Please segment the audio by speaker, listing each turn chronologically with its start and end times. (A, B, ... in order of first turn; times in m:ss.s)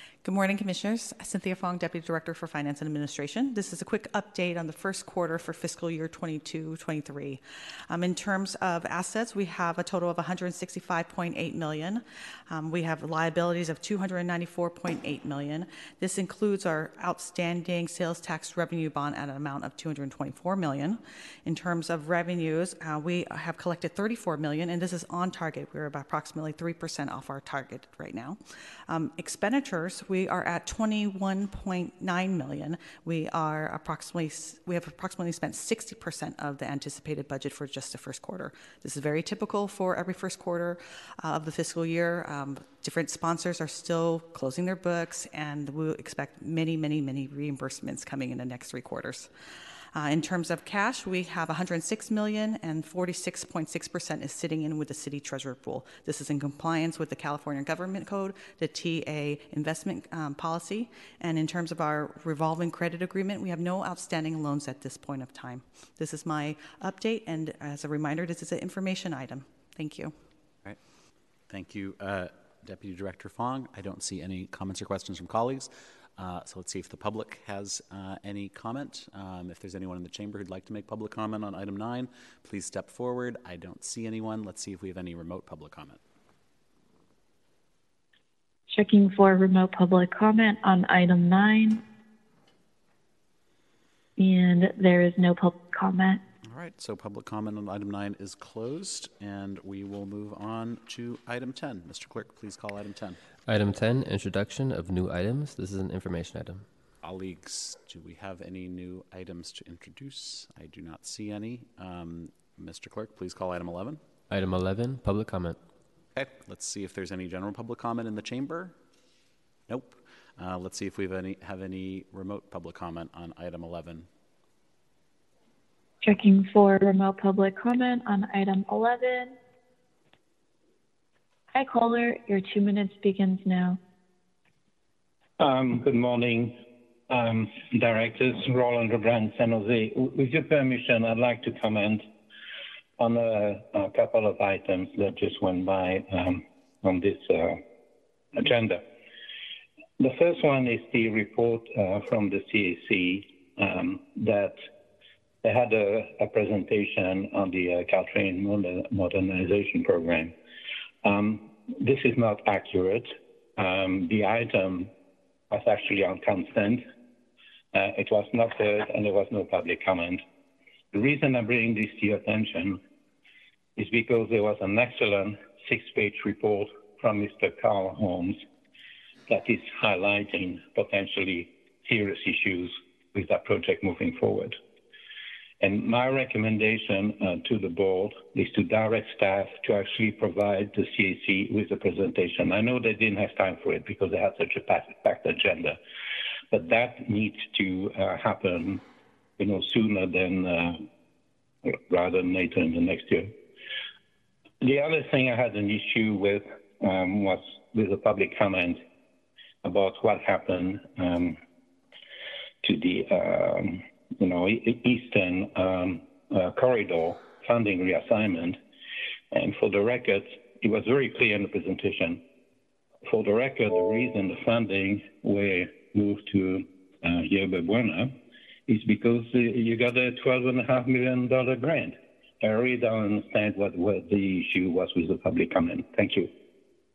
0:00.2-0:49.3 A
0:50.0-1:10.2 A
1:11.5-1:26.0 B
1:28.7-1:31.8 C
1:34.2-1:36.2 C
1:36.4-1:43.2 B
1:43.5-1:46.6 D
1:47.0-1:54.0 B
1:54.3-1:55.6 D
1:56.2-1:58.8 B
1:59.7-2:04.1 B
2:06.0-2:09.4 C
2:11.5-2:13.8 C
2:15.4-2:16.5 E
2:17.1-2:22.1 E
2:23.0-2:27.6 E
2:28.3-2:28.8 E
2:30.0-2:34.6 E
2:35.4-2:40.4 E
2:41.0-2:44.9 E
2:45.5-2:46.8 E
2:47.7-2:50.2 E
2:50.9-2:52.8 E
2:53.8-2:58.4 E
2:59.3-3:04.6 E
3:05.6-3:15.8 E
3:16.5-3:18.8 E
3:19.4-3:20.9 E
3:21.6-3:23.4 E
3:24.6-3:28.8 E
3:29.6-3:31.4 E
3:32.6-3:38.6 E
3:39.3-3:42.2 E
3:43.1-3:48.2 E
3:48.7-3:56.3 E